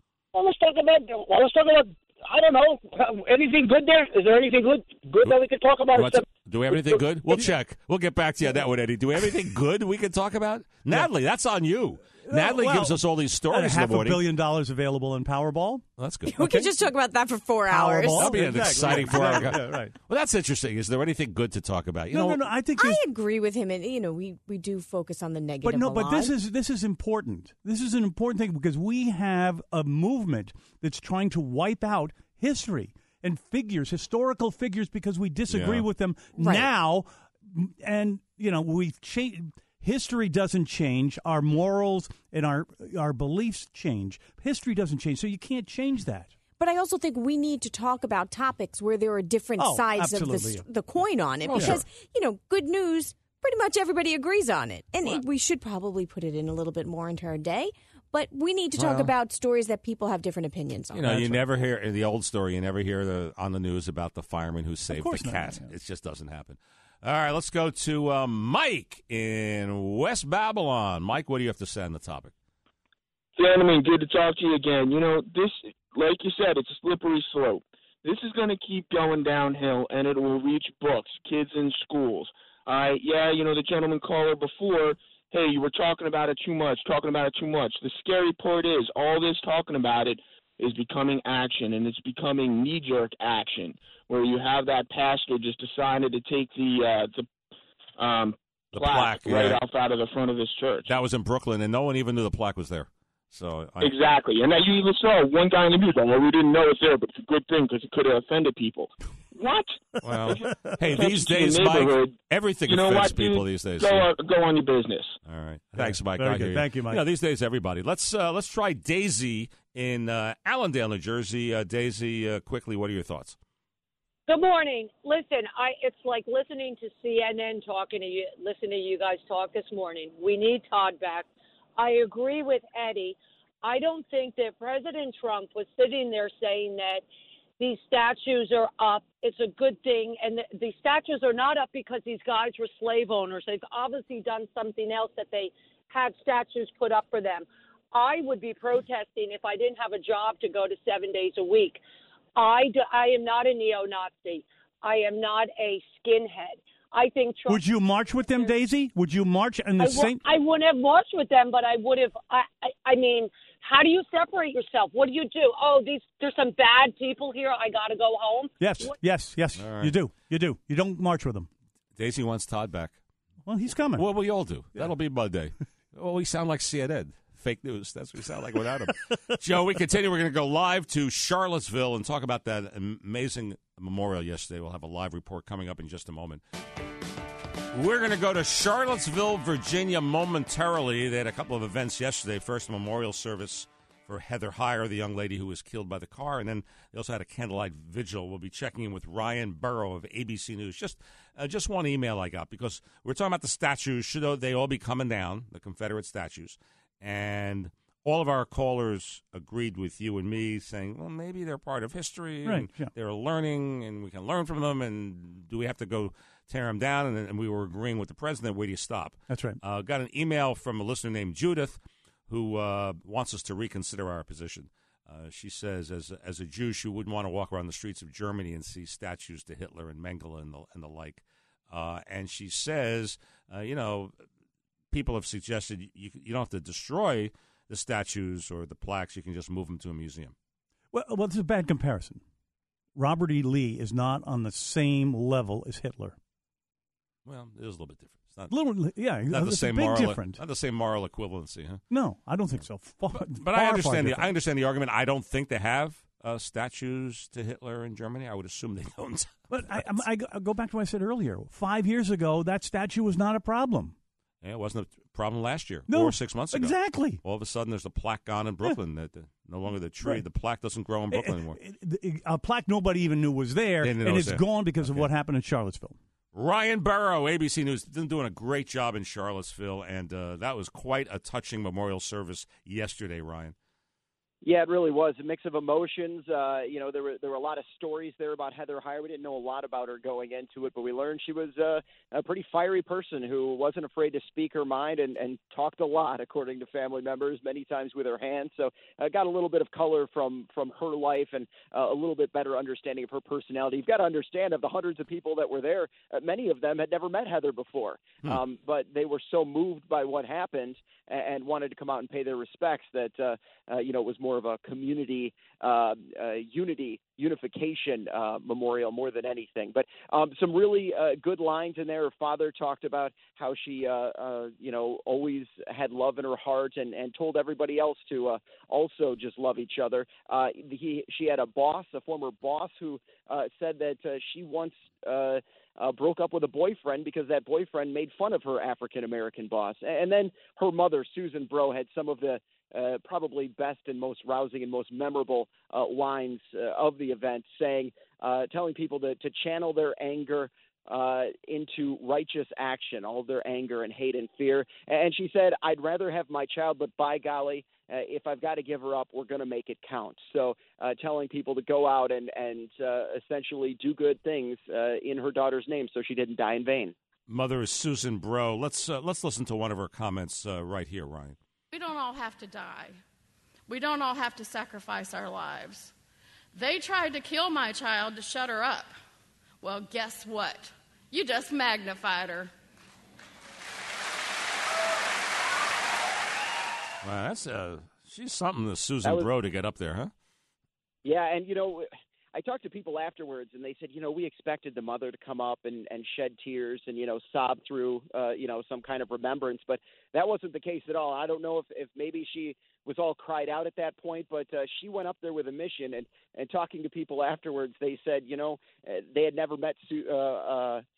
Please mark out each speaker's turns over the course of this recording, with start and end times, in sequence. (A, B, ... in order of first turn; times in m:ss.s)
0:00.3-0:07.0 A
0:05.9-0:14.2 B
0:12.2-0:15.8 C
0:16.0-0:16.6 B
0:16.3-0:19.4 D
0:16.4-0:16.7 C
0:17.7-0:19.9 C
0:18.2-0:22.4 B
0:22.1-0:23.0 C
0:22.8-0:26.3 D
0:25.6-0:46.3 C
0:35.5-0:35.8 B
0:36.4-0:36.7 D
0:46.6-1:01.4 D
0:49.6-0:50.7 C
0:51.5-0:51.8 B
0:51.5-0:51.8 C
0:58.8-0:59.1 B
1:00.9-1:12.3 B
1:04.9-1:05.7 C
1:13.4-1:37.3 E
1:38.0-1:40.9 E
1:38.7-1:39.6 B
1:40.8-1:44.0 B
1:43.8-1:49.8 E
1:50.0-1:54.1 B
1:50.3-1:52.2 E
1:52.7-1:55.2 E
1:55.3-2:03.4 B
1:55.8-1:57.0 C
2:04.3-2:11.3 F
2:11.8-2:17.0 F
2:17.6-2:31.8 F
2:32.4-2:37.6 F
2:37.5-2:40.2 C
2:39.8-2:48.5 F
2:48.6-2:51.5 C
2:49.6-2:49.9 B
2:52.0-2:53.0 B
2:53.5-2:54.1 C
2:54.0-3:06.4 B
3:07.7-3:54.1 B
3:32.4-3:32.9 C
3:39.3-3:39.6 C
3:54.9-4:00.3 B
4:00.9-4:02.2 C
4:03.0-4:06.2 C
4:07.3-4:08.5 B
4:08.5-4:10.4 C
4:09.3-4:11.8 B
4:11.9-4:14.3 C
4:13.2-4:19.9 B
4:19.5-4:24.0 C
4:24.4-4:31.6 B
4:25.9-4:27.2 C
4:31.1-4:36.0 C
4:33.8-4:35.1 B
4:36.3-4:43.6 B
4:44.4-6:06.9 G
6:07.3-6:11.4 B
6:11.7-6:13.0 H
6:13.7-6:15.9 H
6:16.5-6:18.9 H
6:19.6-6:22.5 H
6:27.0-6:30.1 B
6:31.0-6:50.8 G